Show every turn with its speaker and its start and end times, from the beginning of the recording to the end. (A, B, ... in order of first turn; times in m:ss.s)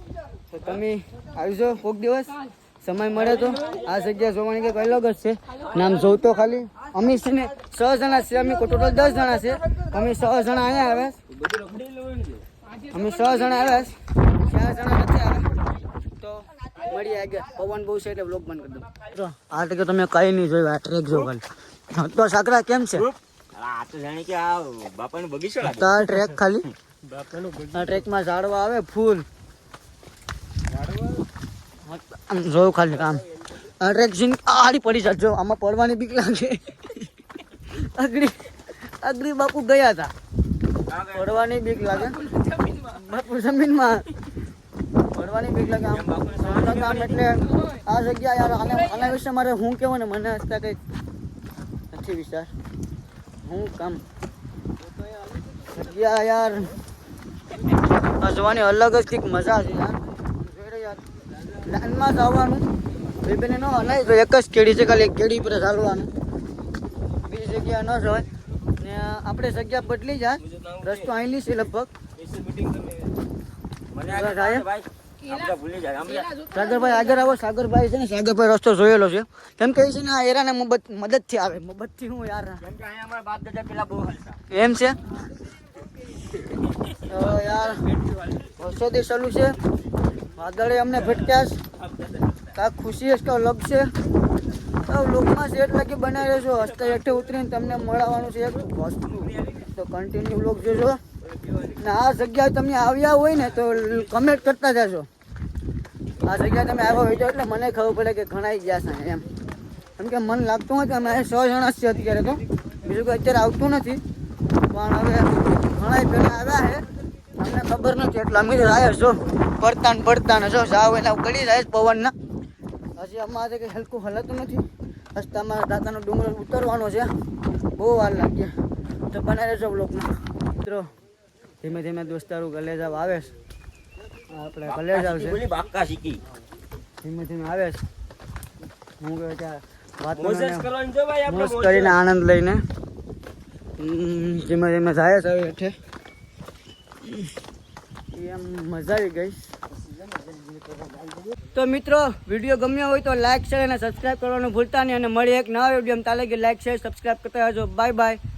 0:00.5-0:11.2 A
0:11.3-0:12.4 B
0:12.9-0:15.6 A
0:16.2-0:23.1 A
0:23.0-0:26.0 B
0:25.6-0:26.7 A
0:27.7-0:29.2 A
0:31.8-0:37.0 A
0:37.7-0:40.1 A
0:40.8-0:41.3 B
0:41.1-0:44.1 A
0:45.0-0:50.8 A
0:45.9-0:47.2 B
0:51.9-0:52.5 A
0:53.4-0:54.0 A
0:55.7-0:56.7 A
0:58.2-1:02.7 A
1:03.2-1:06.1 A
1:07.2-1:11.9 A
1:10.5-1:11.0 B
1:12.2-1:13.1 B
1:13.9-1:16.5 B
1:14.0-1:14.6 A
1:16.5-1:22.6 A
1:22.6-1:24.4 B
1:24.5-1:25.0 A
1:27.0-1:27.9 A
1:28.6-1:29.6 A
1:30.3-1:31.6 A
1:32.5-1:33.9 A
1:34.8-1:41.0 A
1:41.7-1:45.1 A
1:46.2-1:49.2 A
1:50.0-1:54.0 A
1:54.7-1:56.8 A
1:57.4-2:02.1 A
2:03.0-2:07.1 A
2:07.8-2:08.5 A
2:09.1-2:10.9 A
2:11.6-2:13.3 A
2:14.3-2:15.4 A
2:14.6-2:16.2 B
2:17.0-2:17.8 A
2:19.0-2:20.7 A
2:20.1-2:22.0 B
2:21.2-2:22.6 A
2:23.8-2:25.8 A
2:28.1-2:29.5 A
2:31.5-2:38.2 A